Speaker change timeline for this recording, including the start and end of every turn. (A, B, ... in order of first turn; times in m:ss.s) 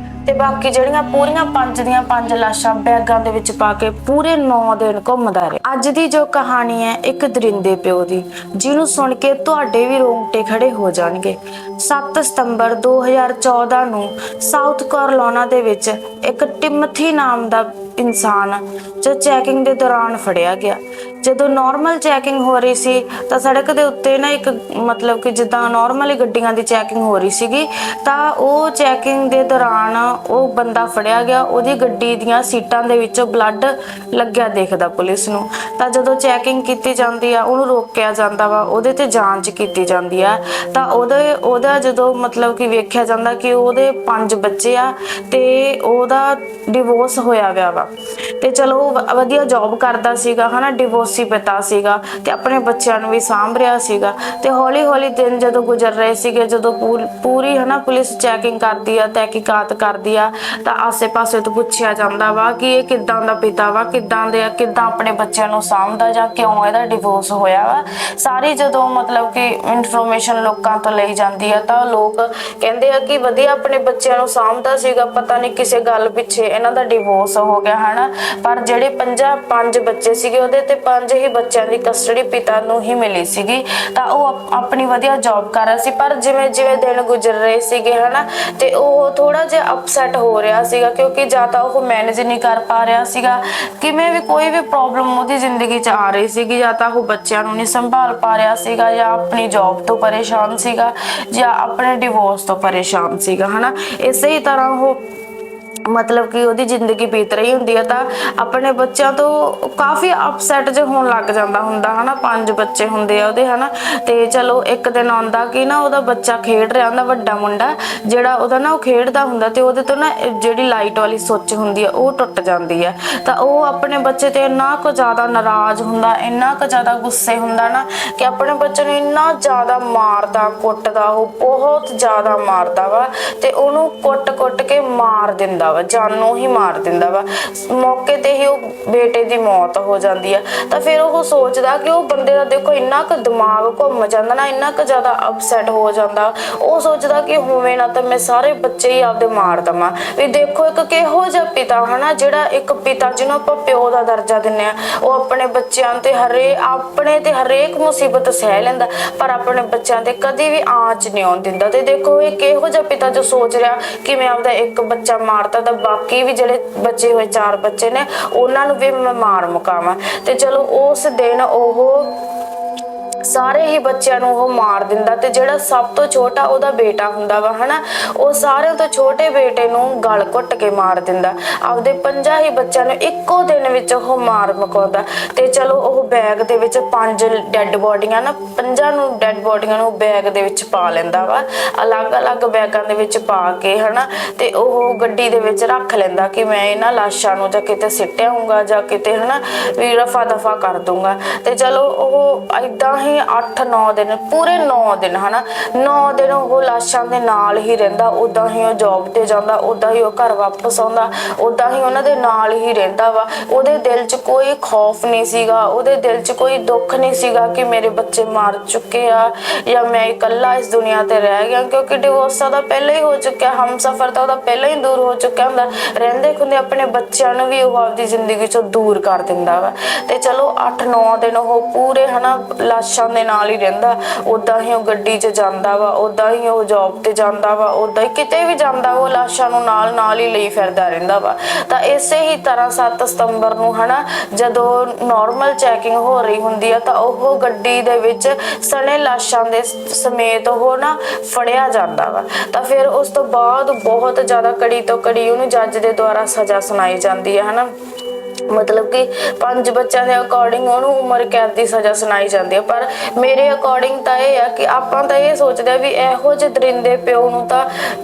0:00.3-1:45.0 A
1:45.9-2:52.1 A
2:53.3-4:17.7 A
4:18.5-4:27.7 A